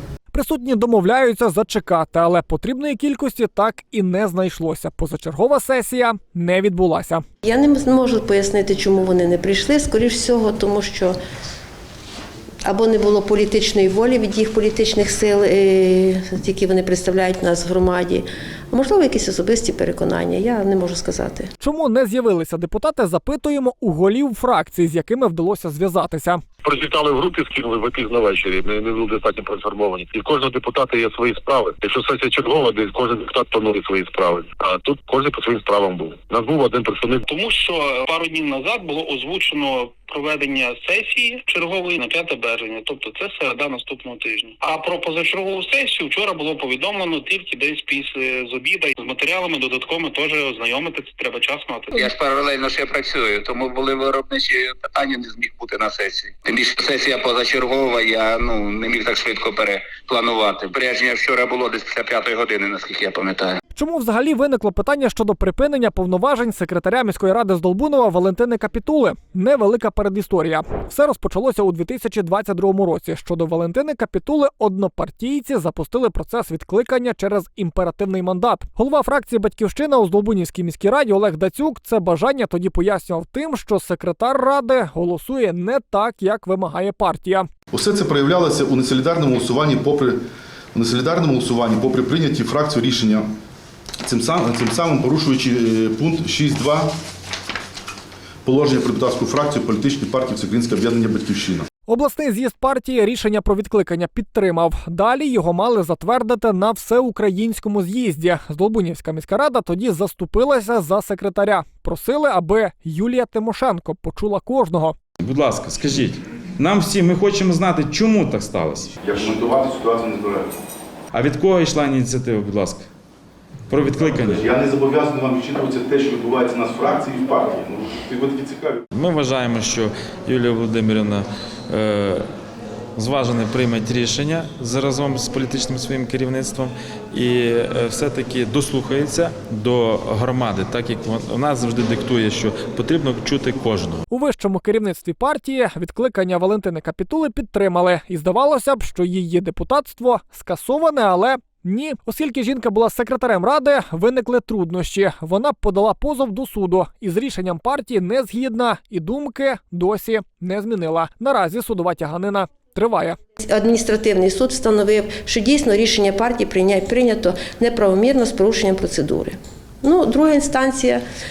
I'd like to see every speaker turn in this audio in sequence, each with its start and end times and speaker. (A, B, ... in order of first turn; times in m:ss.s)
0:00.3-0:07.2 A
0:07.4-0:11.2 B
0:12.7-0:21.5 B
0:21.6-0:26.4 A
0:26.6-0:37.2 C
0:37.3-0:52.0 D
0:51.9-1:03.6 E
1:03.8-1:27.5 A
1:27.7-1:30.2 F
1:30.7-1:33.3 F
1:34.0-1:36.9 F
1:38.4-1:41.7 F
1:41.9-1:55.0 A
1:55.2-1:59.0 G
1:59.0-2:00.5 F
2:01.1-2:02.9 G
2:03.7-2:04.5 G
2:04.1-2:08.8 F
2:08.9-2:12.2 G
2:13.0-2:24.0 G
2:24.1-2:43.2 A
2:43.4-2:51.0 B